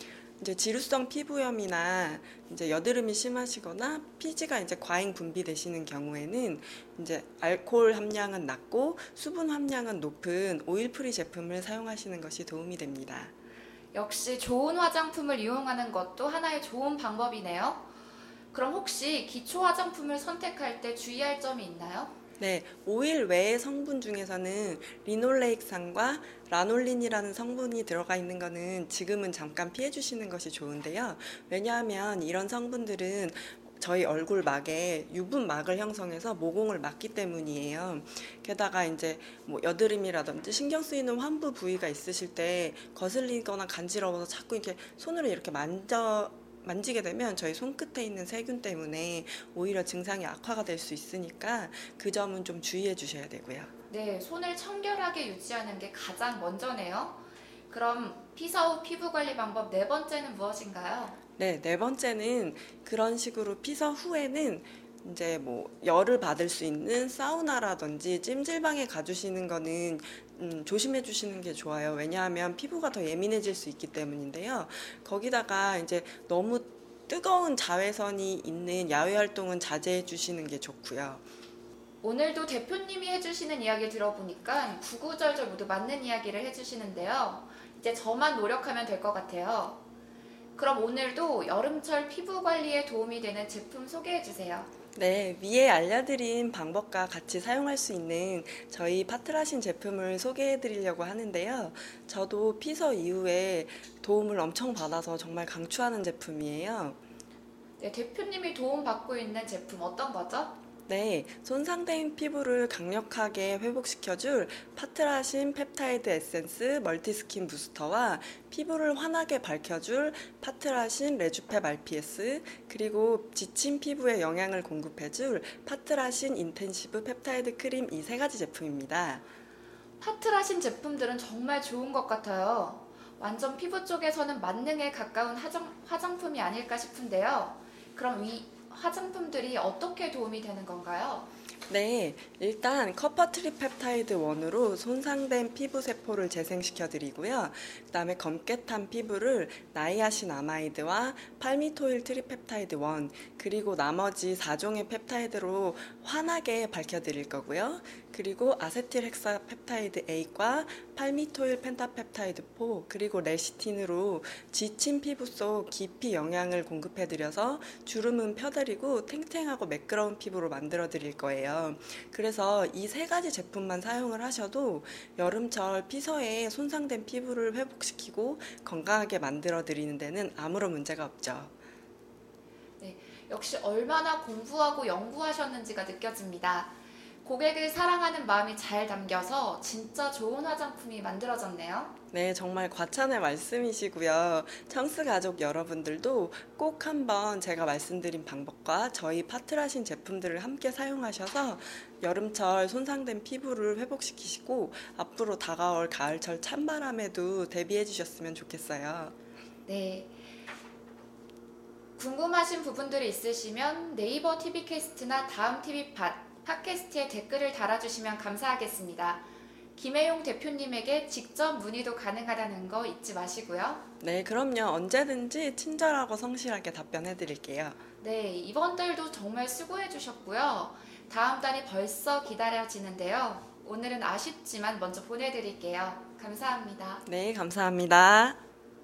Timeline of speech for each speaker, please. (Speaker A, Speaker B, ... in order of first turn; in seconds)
Speaker A: 0.4-13.3, 22.4-53.7, 61.4-81.2, 94.9-107.0, 110.9-129.2, 141.7-181.5, 192.1-209.1, 224.0-227.8, 237.1-238.4
Speaker B: 13.9-17.9, 18.5-22.1, 53.9-61.2, 82.0-89.8, 90.5-94.7, 107.8-110.5, 130.0-141.3, 182.8-191.9, 209.7-210.1, 212.0-219.2, 219.8-223.8, 228.0-237.0